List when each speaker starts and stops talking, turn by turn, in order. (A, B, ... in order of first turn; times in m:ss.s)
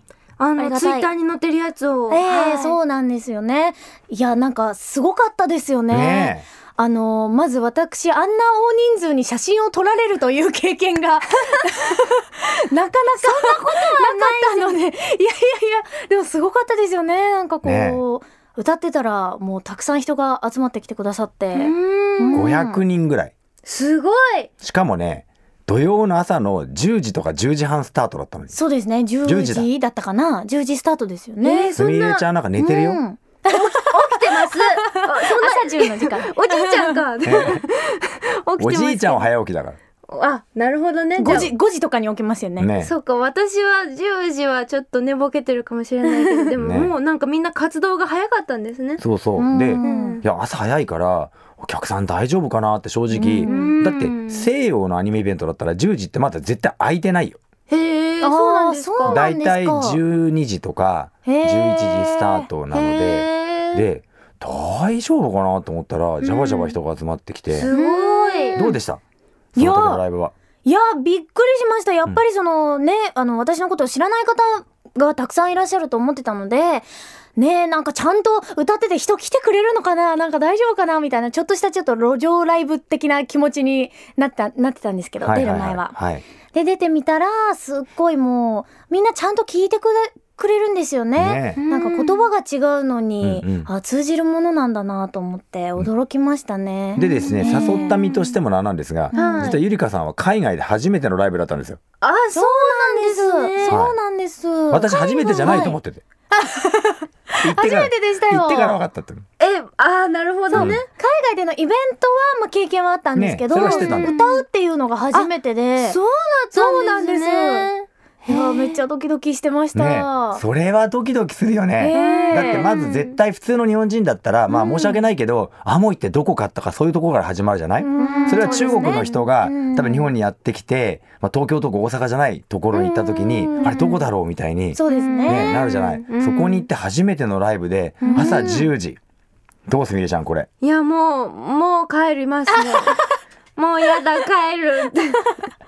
0:00.4-0:02.8 A
0:00.6-0:01.1 B
0:02.1-0:22.8 B
0:05.9-0:06.5 C
0:13.2-0:14.8 A
0:17.6-0:18.0 C
0:21.6-0:22.6 A
0:22.3-0:23.3 C
0:23.6-0:24.5 A
0:24.6-0:28.6 C
0:28.5-0:31.7 B
0:29.2-0:29.7 C
0:31.4-0:32.2 A
0:31.7-0:33.0 C
0:32.6-0:37.0 B
0:33.5-0:39.3 A
0:37.2-0:37.6 C
0:38.6-0:39.8 C
0:40.1-0:41.5 A
0:41.2-0:42.7 B
0:42.6-0:42.9 C
0:42.8-0:49.0 A
0:46.1-0:46.5 B
0:46.6-0:46.9 C
0:49.0-0:57.4 C
0:49.4-0:50.2 B
0:49.8-0:50.2 A
0:53.2-0:53.8 B
0:53.4-0:54.5 A
0:57.7-0:59.2 A
0:58.2-1:00.0 B
0:59.0-1:07.7 C
1:01.3-1:03.2 B
1:02.9-1:03.8 A
1:06.2-1:06.8 A
1:07.5-1:08.6 A
1:07.7-1:08.8 B
1:08.6-1:09.0 C
1:09.6-1:10.0 B
1:09.6-1:10.3 C
1:10.6-1:26.0 B
1:25.2-1:26.2 C
1:26.5-1:38.1 B
1:31.2-1:31.6 C
1:31.6-1:32.3 A
1:33.2-1:33.7 C
1:37.0-1:41.8 C
1:37.2-1:38.0 A
1:39.1-1:39.6 B
1:39.1-1:39.6 A
1:42.0-1:43.8 A
1:42.3-1:45.8 B
1:43.7-1:44.0 C
1:44.7-1:46.0 C
1:46.3-1:48.8 B
1:47.4-1:49.2 C
1:49.4-1:50.9 A
1:50.5-1:56.0 B
1:50.5-1:50.8 C
1:53.2-1:54.1 C
1:53.6-1:54.4 A
1:55.1-1:58.8 A
1:56.5-1:57.7 B
1:58.3-2:00.4 B
1:59.8-2:19.0 C
2:01.8-2:02.7 B
2:01.9-2:03.1 A
2:04.5-2:04.9 A
2:07.8-2:10.1 B
2:08.0-2:09.0 A
2:12.8-2:14.0 A
2:13.4-2:14.0 B
2:14.8-2:15.5 B
2:14.9-2:16.7 A
2:18.0-2:18.5 A
2:18.0-2:18.7 B
2:19.7-2:20.5 C
2:20.6-2:25.5 A